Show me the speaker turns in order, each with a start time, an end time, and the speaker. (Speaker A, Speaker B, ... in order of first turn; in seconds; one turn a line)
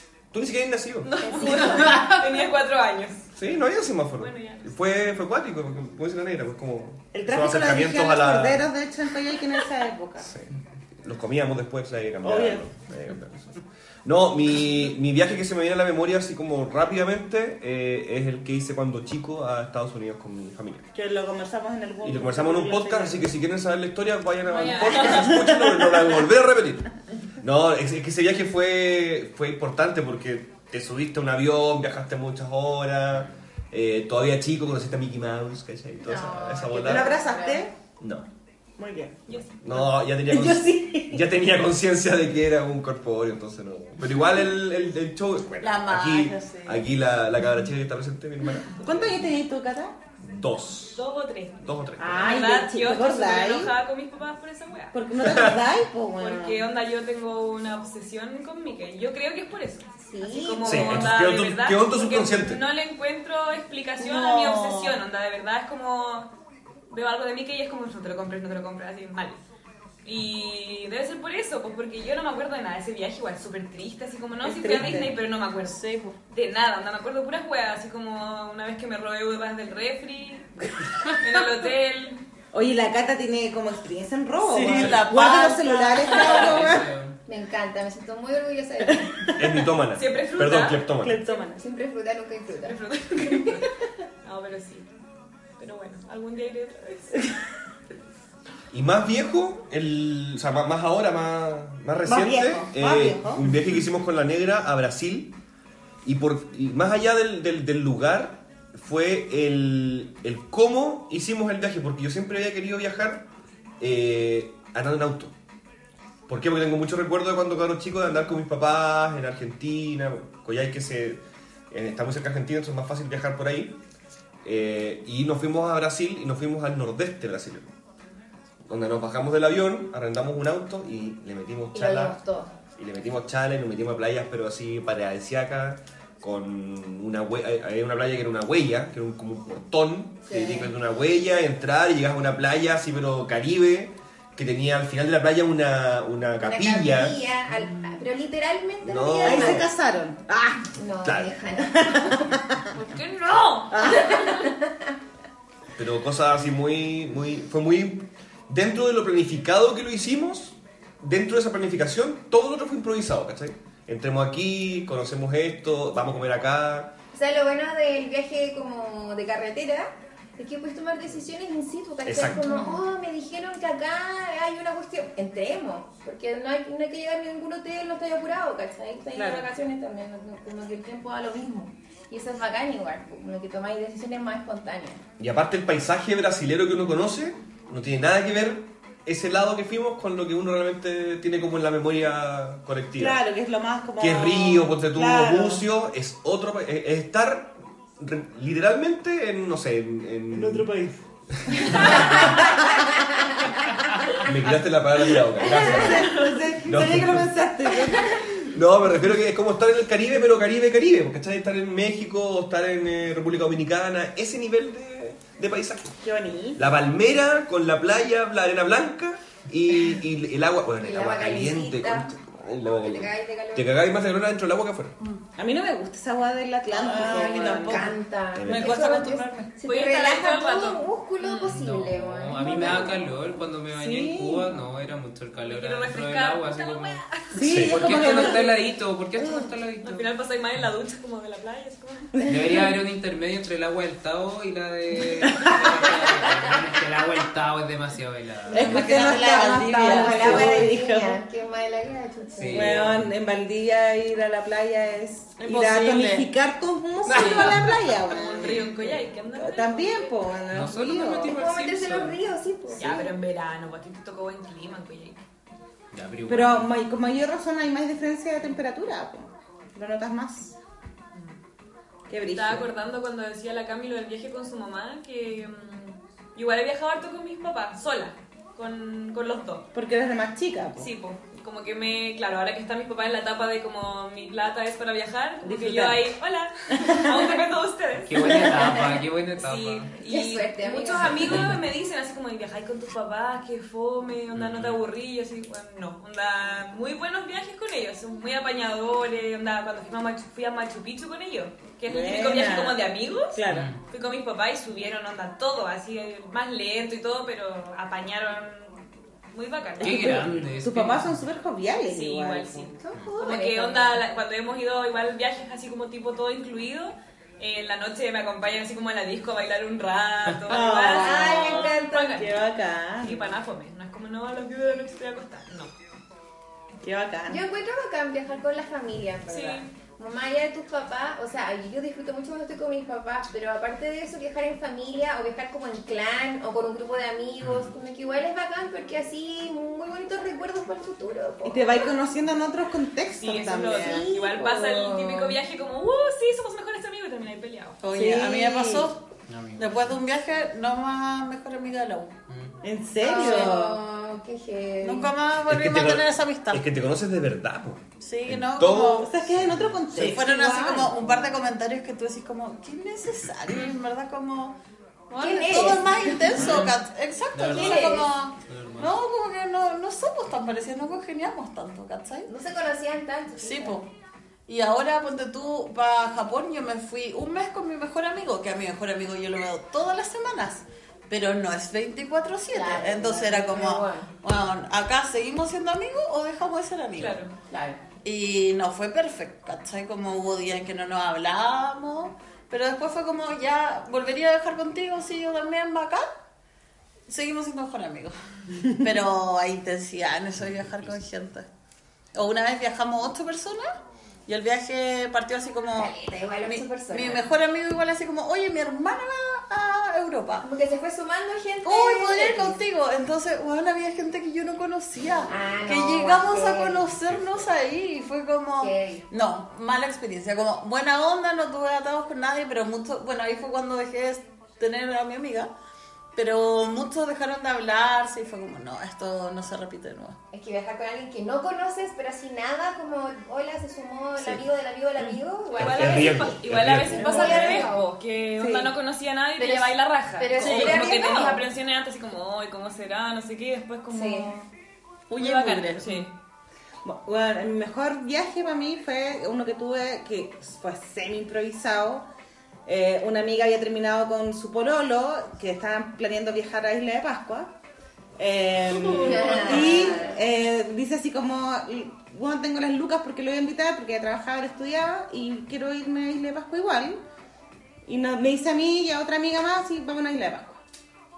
Speaker A: 0.3-1.1
Speaker B: 1.0-3.3
Speaker C: 1.2-2.2
Speaker A: 3.4-8.7
Speaker B: 4.2-4.8
Speaker D: 7.1-10.3
Speaker A: 10.2-20.9
Speaker D: 12.2-12.7
Speaker D: 20.9-23.3
Speaker A: 22.0-37.1
Speaker B: 24.5-25.4
Speaker D: 25.1-26.1
Speaker C: 36.0-37.7
Speaker D: 36.7-37.7
Speaker A: 38.0-38.3
Speaker D: 38.8-39.2
Speaker B: 39.3-39.9
Speaker A: 39.6-49.0
Speaker D: 40.2-41.3
Speaker E: 45.6-46.9
Speaker D: 48.8-50.0
Speaker A: 50.2-51.0
Speaker B: 51.0-54.9
Speaker A: 51.6-52.4
Speaker D: 52.0-53.8
Speaker D: 54.9-56.6
Speaker A: 55.2-55.6
Speaker B: 56.2-66.3
Speaker C: 60.0-61.1
Speaker A: 60.6-62.6
Speaker E: 64.0-65.0
Speaker B: 66.9-69.4
Speaker B: 70.0-82.2
Speaker D: 74.4-75.2
Speaker E: 75.7-76.1
Speaker D: 82.5-86.9
Speaker E: 84.4-86.5
Speaker F: 86.2-87.2
Speaker C: 87.3-89.3
Speaker D: 88.9-89.7
Speaker A: 89.3-91.2
Speaker B: 89.9-91.5
Speaker D: 91.0-91.6
Speaker C: 91.5-92.8
Speaker B: 92.6-93.7
Speaker B: 94.2-94.9
Speaker B: 95.6-97.2
Speaker A: 98.7-105.4
Speaker D: 102.0-103.6
Speaker A: 106.0-113.3
Speaker A: 113.8-115.3
Speaker A: 116.3-123.8
Speaker A: 124.4-127.7
Speaker A: 128.7-132.2
Speaker C: 131.7-132.5
Speaker A: 132.8-147.2
Speaker C: 140.2-140.7
Speaker C: 146.4-149.7
Speaker A: 148.8-149.7
Speaker D: 149.2-150.7
Speaker C: 150.8-152.3
Speaker A: 151.0-151.4
Speaker D: 151.6-152.6
Speaker B: 152.7-154.5
Speaker D: 153.7-154.2
Speaker C: 153.9-154.9
Speaker A: 155.8-167.0
Speaker C: 167.1-185.0
Speaker A: 172.1-172.6
Speaker D: 179.2-179.4
Speaker A: 185.2-193.2
Speaker D: 193.0-195.7
Speaker A: 194.0-200.7
Speaker D: 200.3-201.0
Speaker A: 201.5-202.4
Speaker B: 201.6-202.4
Speaker D: 201.6-202.7
Speaker A: 204.2-207.3
Speaker D: 205.2-208.5
Speaker A: 208.5-216.0
Speaker D: 216.0-216.7
Speaker A: 216.6-225.0
Speaker C: 220.8-223.8
Speaker D: 225.4-227.9
Speaker C: 226.7-233.1
Speaker E: 226.9-227.8
Speaker A: 228.3-228.9
Speaker E: 228.5-229.3
Speaker B: 229.6-231.5
Speaker F: 231.4-237.0
Speaker D: 233.7-234.5
Speaker B: 235.4-237.3
Speaker D: 237.3-238.5
Speaker A: 237.4-237.8
Speaker F: 237.6-240.1
Speaker B: 237.9-238.4
Speaker B: 239.8-242.2
Speaker D: 242.2-242.7
Speaker F: 242.2-249.0
Speaker D: 245.2-245.5
Speaker D: 248.5-251.2
Speaker C: 248.5-252.8
Speaker E: 248.5-250.7
Speaker F: 252.4-253.1
Speaker D: 252.5-261.3
Speaker E: 255.4-256.3
Speaker F: 257.1-257.8
Speaker B: 257.1-260.2
Speaker F: 260.5-262.2
Speaker C: 261.3-263.1
Speaker B: 262.8-265.2
Speaker F: 265.9-266.7
Speaker D: 266.3-270.6
Speaker D: 272.1-272.7
Speaker B: 272.3-279.7
Speaker D: 279.7-280.9
Speaker B: 280.8-310.4
Speaker D: 285.4-286.1
Speaker D: 286.7-287.3
Speaker F: 288.1-289.9
Speaker C: 290.0-291.4
Speaker F: 291.1-291.6
Speaker F: 294.4-294.8
Speaker D: 301.9-303.7
Speaker F: 303.5-303.8
Speaker F: 309.8-311.1
Speaker D: 309.8-312.7
Speaker B: 311.9-322.4
Speaker C: 312.8-314.1
Speaker D: 320.5-323.4
Speaker C: 320.9-322.3
Speaker B: 323.0-325.7
Speaker D: 326.8-327.4
Speaker C: 327.3-341.9
Speaker B: 329.3-329.7
Speaker D: 341.4-344.1
Speaker B: 343.2-347.8
Speaker C: 343.8-345.4
Speaker E: 347.8-349.0
Speaker D: 347.9-348.9
Speaker F: 349.3-350.0
Speaker E: 349.6-352.1
Speaker F: 352.3-352.6
Speaker D: 352.6-353.8
Speaker C: 353.0-355.1
Speaker E: 353.1-353.5
Speaker E: 354.8-356.6
Speaker A: 355.5-359.4
Speaker E: 358.0-359.1
Speaker D: 359.0-361.1
Speaker F: 359.4-359.9
Speaker E: 359.9-364.6
Speaker E: 365.1-372.3
Speaker C: 365.1-366.6
Speaker F: 366.4-366.8
Speaker F: 367.3-368.9
Speaker C: 367.5-368.1
Speaker C: 372.3-373.9
Speaker E: 373.4-373.9
Speaker E: 374.5-387.2
Speaker C: 382.5-384.1
Speaker B: 387.0-387.4
Speaker C: 387.5-387.8
Speaker E: 388.0-396.1
Speaker E: 397.1-401.5
Speaker E: 402.1-403.8
Speaker E: 404.3-405.9
Speaker C: 405.7-407.2
Speaker E: 406.4-410.5
Speaker C: 410.4-412.6
Speaker E: 411.6-425.5
Speaker C: 415.3-416.9
Speaker C: 418.6-419.1
Speaker E: 426.1-430.2
Speaker C: 430.3-437.9
Speaker A: 435.6-437.5
Speaker B: 435.6-444.4
Speaker D: 437.1-437.6
Speaker D: 438.4-438.7
Speaker C: 439.4-441.4
Speaker E: 440.4-440.9
Speaker C: 443.9-444.4
Speaker E: 445.1-446.0
Speaker B: 445.2-446.1
Speaker D: 446.8-452.1
Speaker D: 452.6-457.6
Speaker D: 458.2-467.0
Speaker C: 458.9-460.2
Speaker D: 467.9-470.6